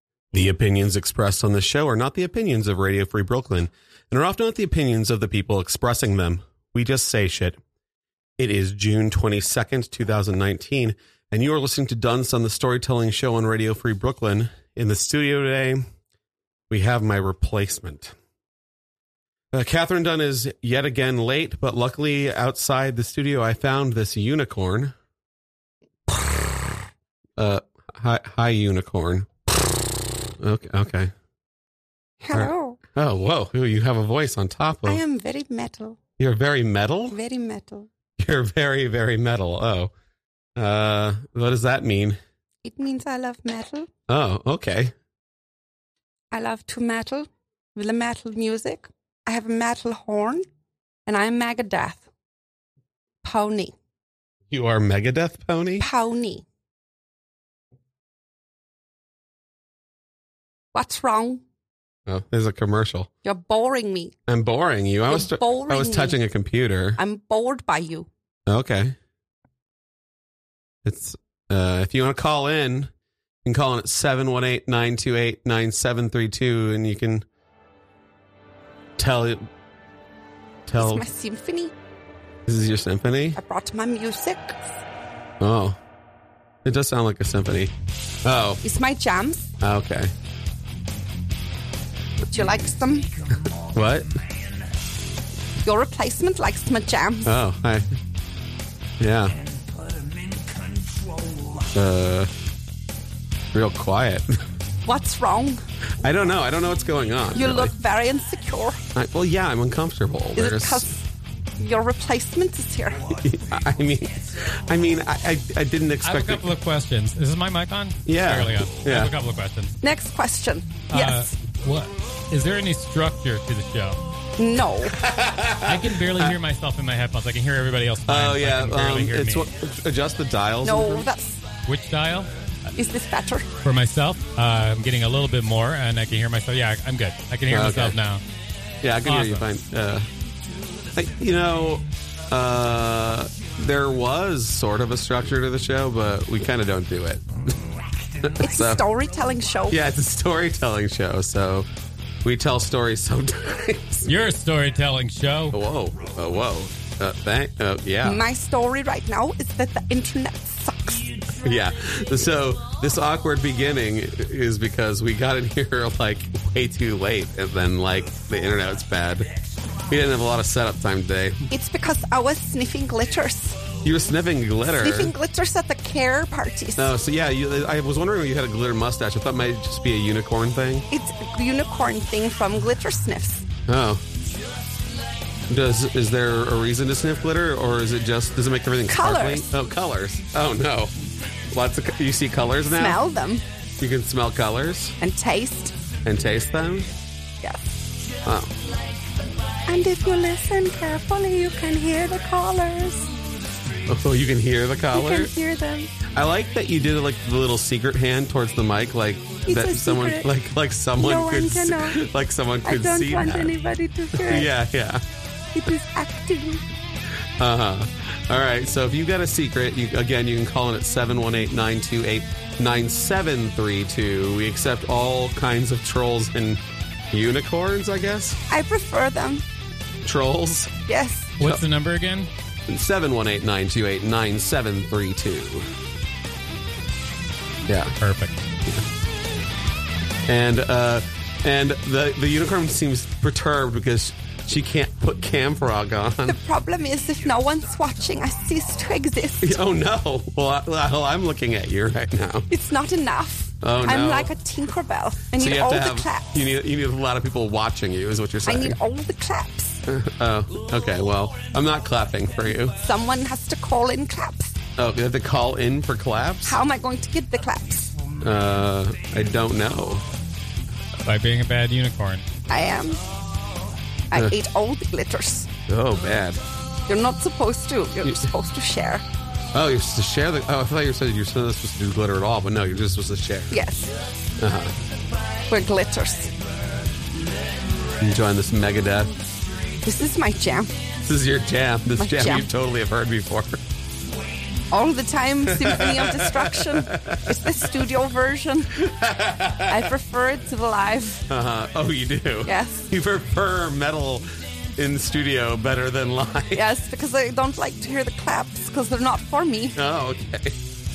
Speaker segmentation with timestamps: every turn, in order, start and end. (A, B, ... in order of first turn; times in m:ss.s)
0:00.3-0:07.6 A
0:08.4-0:15.8 A
0:16.7-0:18.2 A
0:19.5-0:25.0 A
0:27.4-0:29.3 A
0:30.4-0:31.1 A
0:32.2-0:32.8 B
0:32.3-0:35.0 A
0:34.9-0:36.0 B
0:36.2-0:37.2 A
0:37.1-0:37.9 B
0:38.2-0:39.9 A
0:40.6-0:42.2 A
0:42.6-0:43.9 B
0:44.1-0:44.9 A
0:46.3-0:50.5 B
0:51.1-0:52.0 B
0:53.2-0:53.7 B
0:54.5-0:55.9 A
0:55.8-0:56.4 B
1:00.7-1:01.4 B
1:02.1-1:03.1 A
1:03.2-1:04.1 B
1:04.3-1:07.0 A
1:05.1-1:06.2 B
1:07.0-1:08.1 B
1:08.5-1:09.0 A
1:10.8-1:12.9 A
1:13.4-1:17.2 A
1:19.0-1:19.5 A
1:20.7-1:21.0 A
1:20.8-1:21.7 B
1:22.5-1:23.4 A
1:23.4-1:24.6 B
1:25.4-1:25.8 A
1:26.6-1:27.7 A
1:28.2-1:28.6 A
1:28.6-1:29.5 B
1:29.6-1:30.1 A
1:32.3-1:33.1 B
1:33.6-1:34.1 A
1:35.6-1:37.3 B
1:37.2-1:37.9 A
1:39.0-1:39.4 A
1:41.6-1:42.3 A
1:43.5-1:44.3 A
1:44.9-1:45.6 B
1:46.0-1:47.8 A
1:47.3-1:48.8 B
1:49.0-1:50.9 A
1:50.4-1:51.0 B
1:51.6-1:53.2 B
1:53.2-1:56.5 A
1:56.0-1:59.8 C
1:58.1-1:59.1 A
1:59.8-2:01.3 B
2:00.9-2:04.0 C
2:04.4-2:05.0 B
2:04.9-2:06.4 A
2:05.6-2:09.5 C
2:08.1-2:11.1 A
2:10.6-2:11.4 B
2:11.7-2:12.3 C
2:12.8-2:13.5 B
2:13.6-2:18.2 C
2:17.5-2:18.0 A
2:18.8-2:20.1 A
2:19.1-2:19.5 C
2:20.9-2:28.9 A
2:28.3-2:29.8 B
2:29.7-2:31.7 A
2:32.2-2:34.2 A
2:34.1-2:35.6 C
2:35.5-2:38.2 A
2:38.0-2:41.1 B
2:41.3-2:49.3 A
2:49.8-2:51.5 A
2:51.5-2:53.6 B
2:53.8-2:55.2 A
2:54.8-2:56.9 B
2:56.8-3:00.9 A
3:00.9-3:03.5 B
3:03.6-3:04.0 A
3:05.5-3:10.9 A
3:08.9-3:09.5 B
3:11.5-3:13.0 A
3:12.7-3:13.4 B
3:13.8-3:15.0 A
3:15.0-3:15.7 B
3:16.0-3:16.9 A
3:17.4-3:17.8 B
3:18.2-3:18.6 A
3:19.7-3:23.1 B
3:23.8-3:25.4 A
3:24.9-3:25.9 B
3:26.0-3:33.6 A
3:29.5-3:30.3 B
3:31.0-3:32.0 B
3:32.6-3:34.5 B
3:34.1-3:35.0 A
3:35.5-3:36.6 B
3:37.4-3:48.4 A
3:48.5-3:49.4 B
3:50.0-3:50.7 A
3:50.9-3:51.3 B
3:51.4-3:52.3 C
3:52.7-3:55.7 A
3:57.7-3:58.0 A
3:58.0-3:58.4 C
4:00.3-4:06.4 A
4:06.3-4:09.6 B
4:09.4-4:12.5 A
4:12.5-4:16.3 B
4:13.6-4:14.3 A
4:15.3-4:18.8 A
4:18.5-4:19.8 B
4:19.9-4:22.8 A
4:22.7-4:24.6 B
4:24.8-4:26.6 A
4:26.5-4:27.9 B
4:28.2-4:30.0 A
4:31.0-4:32.3 C
4:32.5-4:33.0 B
4:34.1-4:35.5 B
4:35.7-4:36.4 A
4:36.9-4:39.0 B
4:38.0-4:38.3 A
4:39.5-4:43.6 A
4:43.5-4:43.9 B
4:44.4-4:44.8 A
4:45.5-4:46.3 B
4:47.8-4:49.3 A
4:49.8-4:50.8 B
4:51.0-4:53.6 A
4:52.0-4:52.5 B
4:54.7-4:58.8 B
4:55.4-4:57.9 A
4:58.7-4:59.9 A
4:59.7-5:01.3 B
5:01.3-5:06.7 A
5:02.4-5:02.9 B
5:06.5-5:09.8 B
5:09.8-5:10.6 A